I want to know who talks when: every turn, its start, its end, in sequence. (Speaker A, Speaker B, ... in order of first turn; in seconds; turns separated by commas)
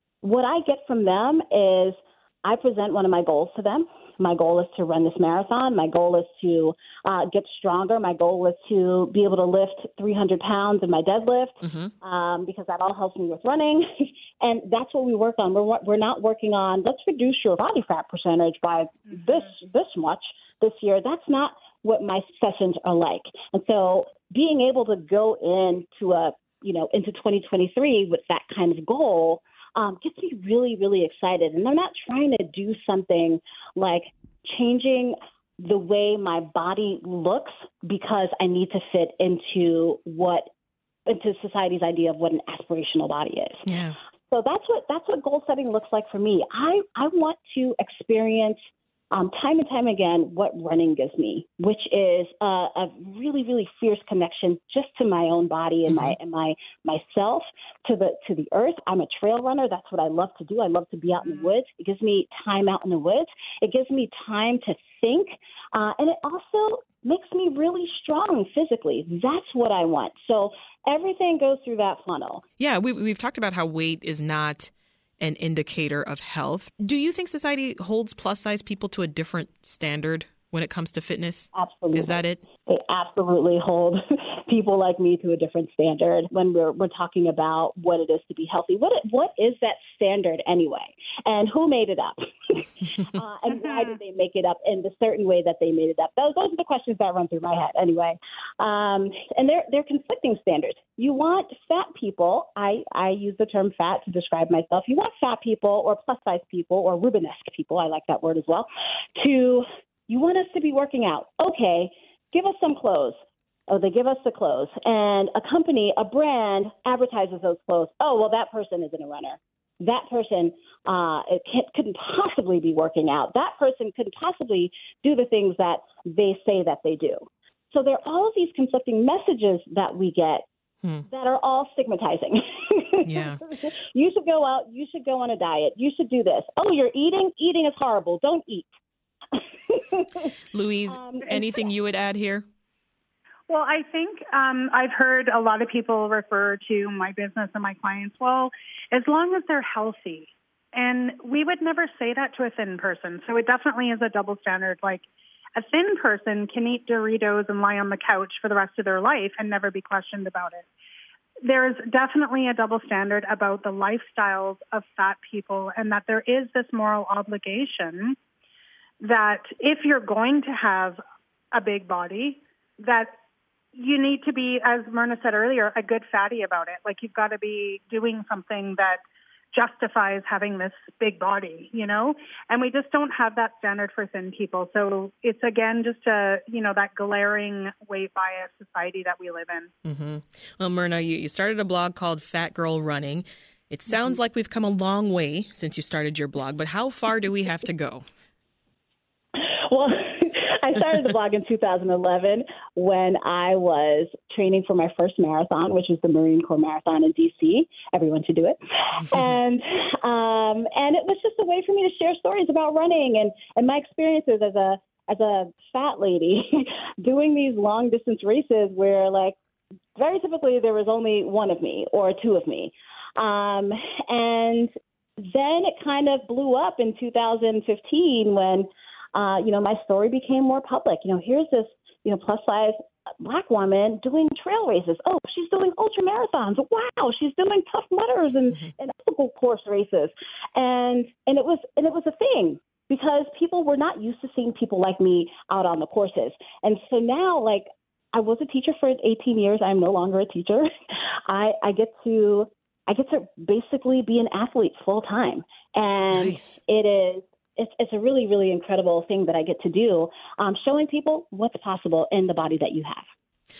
Speaker A: 0.2-40.5, Speaker B: 11.6-11.9, Speaker A: 41.0-43.7, Speaker B: 43.6-44.0, Speaker A: 44.3-48.6, Speaker A: 49.1-72.4, Speaker B: 55.9-56.1, Speaker B: 72.6-82.4, Speaker A: 81.5-130.4, Speaker A: 131.1-138.7, Speaker B: 133.0-133.4, Speaker A: 139.7-140.3, Speaker B: 140.5-142.4, Speaker A: 140.9-141.4, Speaker C: 143.5-155.0, Speaker C: 155.6-160.7, Speaker C: 161.4-168.2, Speaker C: 169.0-171.0, Speaker C: 171.5-173.1, Speaker C: 173.7-179.0, Speaker C: 179.5-189.7, Speaker B: 189.8-198.0, Speaker A: 199.4-219.3, Speaker A: 219.9-263.1, Speaker B: 256.1-256.6